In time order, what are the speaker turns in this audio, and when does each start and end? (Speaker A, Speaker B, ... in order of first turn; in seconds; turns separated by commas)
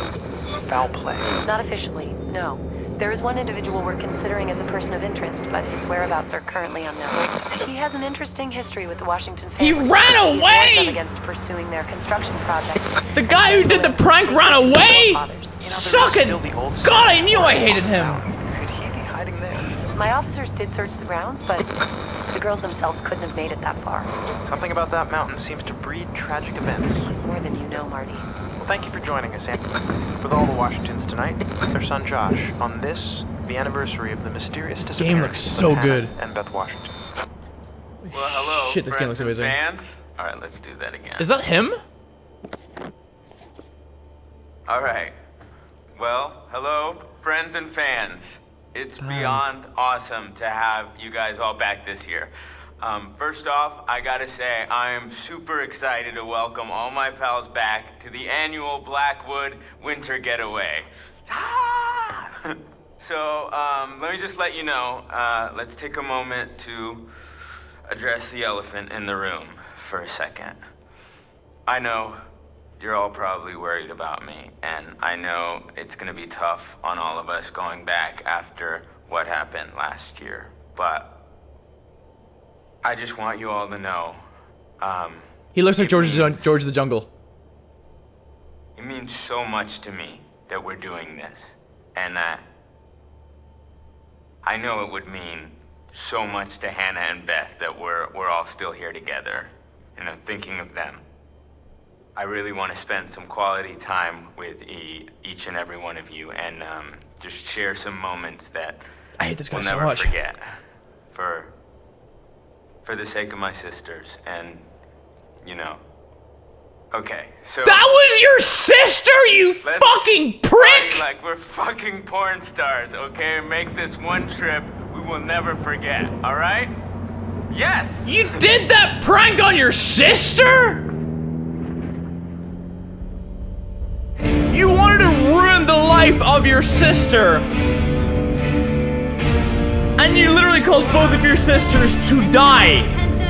Speaker A: 0.6-1.3, Speaker B: 1.4-15.7, Speaker C: 9.6-11.0, Speaker C: 13.1-18.2, Speaker A: 15.6-19.8, Speaker B: 19.9-21.7, Speaker B: 22.3-24.1, Speaker A: 24.4-27.1, Speaker B: 27.2-28.3, Speaker A: 28.6-36.9, Speaker C: 34.8-36.1, Speaker C: 38.0-39.5, Speaker D: 38.1-41.2, Speaker C: 41.2-41.8, Speaker D: 44.7-45.1, Speaker D: 46.0-67.1, Speaker C: 49.0-49.5, Speaker D: 67.9-70.6, Speaker D: 71.7-72.2, Speaker D: 72.8-81.1, Speaker D: 82.8-84.2, Speaker D: 84.8-86.5, Speaker C: 85.5-87.1, Speaker D: 88.8-92.5, Speaker D: 94.4-101.0, Speaker D: 102.2-108.8, Speaker C: 109.2-110.1, Speaker D: 109.5-110.5, Speaker D: 111.1-111.5, Speaker D: 112.8-114.6, Speaker D: 115.4-115.8, Speaker D: 116.9-117.9, Speaker C: 117.6-121.0, Speaker D: 119.6-126.7, Speaker D: 127.5-128.4, Speaker C: 128.0-130.8, Speaker C: 134.5-137.4, Speaker C: 140.0-142.9